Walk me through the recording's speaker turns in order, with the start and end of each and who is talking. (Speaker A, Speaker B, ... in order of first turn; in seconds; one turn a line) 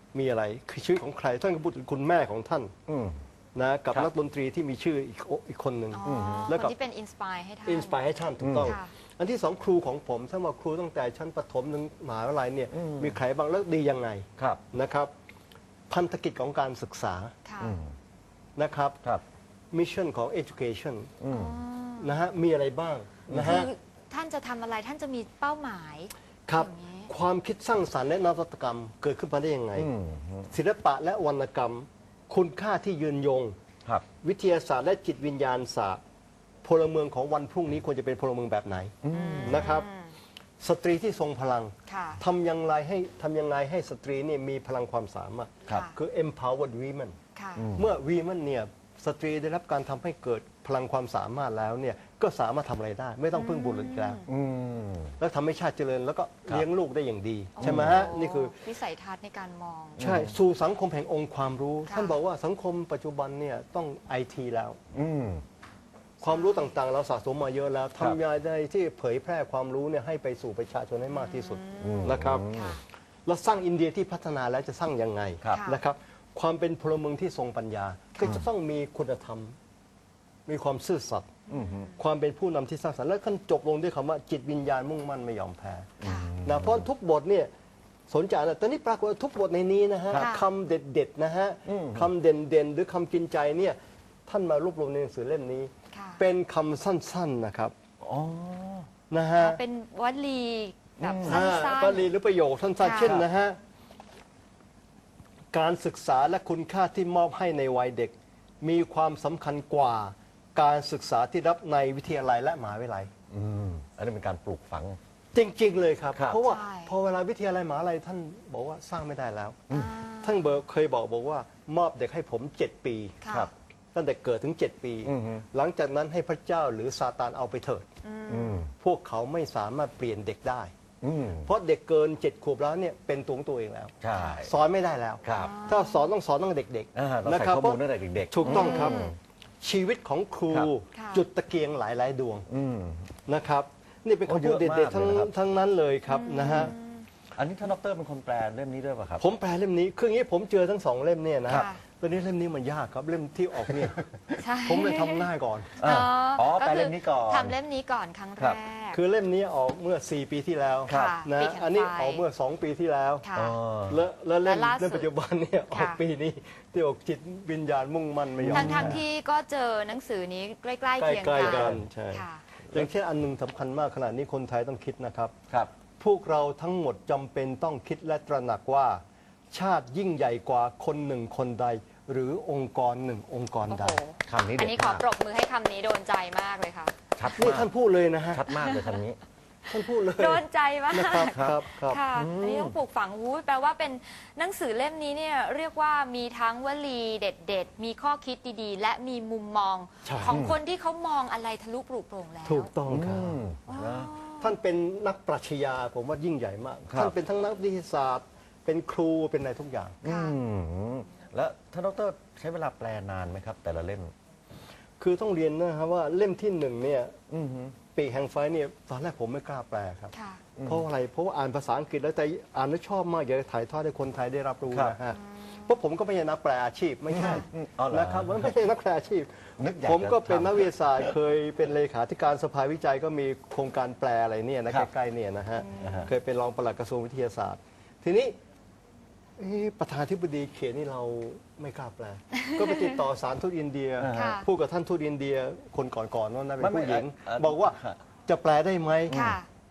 Speaker A: 0.1-2.7
Speaker B: 2.9-3.2
Speaker A: 3.5-6.7
Speaker C: 5.9-8.0
Speaker B: 6.0-6.5
Speaker A: 7.6-15.1
Speaker B: 8.4-8.8
Speaker C: 8.6-8.9
Speaker B: 12.7-13.2
Speaker A: 15.9-17.3
Speaker C: 17.4-17.8
Speaker B: 17.6-17.9
Speaker A: 18.6-19.0
Speaker A: 19.7-21.1
Speaker B: 21.2-21.6
Speaker C: 21.3-22.1
Speaker A: 22.0-23.7
Speaker B: 23.3-23.6
Speaker C: 23.3-27.1
Speaker A: 26.5-29.9
Speaker B: 29.7-30.5
Speaker A: 30.5-33.5
Speaker A: 34.2-36.0
Speaker A: 36.6-39.9
Speaker B: 39.0-39.7
Speaker C: 39.1-40.1
Speaker A: 40.6-47.2
Speaker C: 41.9-42.2
Speaker C: 45.7-46.0
Speaker C: 47.3-47.7
Speaker B: 47.6-47.9
Speaker A: 47.8-54.2
Speaker C: 53.3-54.3
Speaker B: 54.3-55.1
Speaker A: 55.2-58.5
Speaker C: 57.5-60.0
Speaker B: 57.6-58.0
Speaker B: 60.0-60.3
Speaker A: 60.0-64.8
Speaker C: 61.9-62.1
Speaker B: 64.9-65.4
Speaker C: 66.2-66.7
Speaker A: 66.2-72.5
Speaker C: 71.1-72.8
Speaker B: 71.8-72.8
Speaker A: 73.2-79.5
Speaker C: 75.5-75.8
Speaker C: 78.1-78.5
Speaker A: 80.5-81.4
Speaker C: 81.5-82.0
Speaker B: 81.5-81.9
Speaker A: 81.9-85.9
Speaker B: 86.0-86.9
Speaker C: 86.0-86.3
Speaker A: 86.4-87.5
Speaker A: 88.1-97.7
Speaker C: 90.1-90.4
Speaker B: 91.7-92.1
Speaker C: 95.9-96.2
Speaker B: 98.0-98.9
Speaker A: 99.1-99.6
Speaker C: 99.4-102.1
Speaker B: 101.0-101.5
Speaker A: 101.2-103.6
Speaker C: 102.8-103.2
Speaker A: 105.5-113.1
Speaker B: 113.3-115.0
Speaker A: 115.3-119.7
Speaker B: 116.1-116.4
Speaker C: 116.3-116.9
Speaker C: 119.7-120.5
Speaker A: 120.2-123.1
Speaker C: 123.2-123.5
Speaker A: 123.9-127.8
Speaker B: 125.0-125.5
Speaker C: 128.0-128.6
Speaker B: 128.3-128.7
Speaker A: 128.7-130.7
Speaker B: 131.0-131.5
Speaker A: 131.4-139.1
Speaker B: 134.0-134.5
Speaker C: 134.1-134.4
Speaker B: 135.2-135.5
Speaker C: 135.3-136.1
Speaker B: 136.9-139.2
Speaker C: 138.4-139.2
Speaker A: 139.6-142.5
Speaker C: 140.9-141.2
Speaker B: 142.5-143.1
Speaker A: 143.2-146.7
Speaker B: 144.2-145.3
Speaker C: 146.1-147.1
Speaker B: 146.5-146.7
Speaker B: 147.4-149.2
Speaker A: 149.2-154.0
Speaker C: 151.5-151.8
Speaker C: 154.4-155.3
Speaker A: 154.6-155.8
Speaker B: 155.8-157.6
Speaker C: 155.8-159.0
Speaker A: 158.9-163.3
Speaker B: 160.9-161.2
Speaker C: 160.9-162.2
Speaker C: 163.2-163.6
Speaker B: 163.3-164.0
Speaker A: 163.9-169.0
Speaker C: 164.4-165.1
Speaker C: 165.7-166.0
Speaker B: 168.4-169.0
Speaker C: 168.4-172.4
Speaker A: 171.0-175.3
Speaker B: 171.4-171.8
Speaker A: 176.0-184.0
Speaker C: 183.7-186.9
Speaker B: 184.3-185.0
Speaker B: 187.2-187.7
Speaker A: 187.3-188.5
Speaker B: 188.3-189.2
Speaker C: 188.5-189.0
Speaker A: 189.7-192.0
Speaker C: 189.9-202.7
Speaker B: 192.1-192.8
Speaker A: 200.0-200.4
Speaker B: 200.2-200.6
Speaker A: 202.4-203.4
Speaker B: 202.9-204.1
Speaker C: 203.7-204.6
Speaker A: 204.4-210.0
Speaker B: 206.9-207.1
Speaker C: 210.0-210.3
Speaker B: 210.0-214.1
Speaker A: 215.0-217.2
Speaker B: 217.3-217.8
Speaker A: 217.9-238.3
Speaker C: 220.1-220.4
Speaker B: 220.6-220.8
Speaker C: 225.1-225.8
Speaker B: 227.1-228.6
Speaker C: 227.1-227.4
Speaker B: 229.6-231.2
Speaker C: 235.6-236.1
Speaker B: 235.8-236.1
Speaker A: 239.4-249.2
Speaker C: 242.4-242.9
Speaker B: 244.0-244.4
Speaker C: 244.1-244.4
Speaker B: 246.6-248.0
Speaker B: 249.1-249.4
Speaker C: 249.1-249.5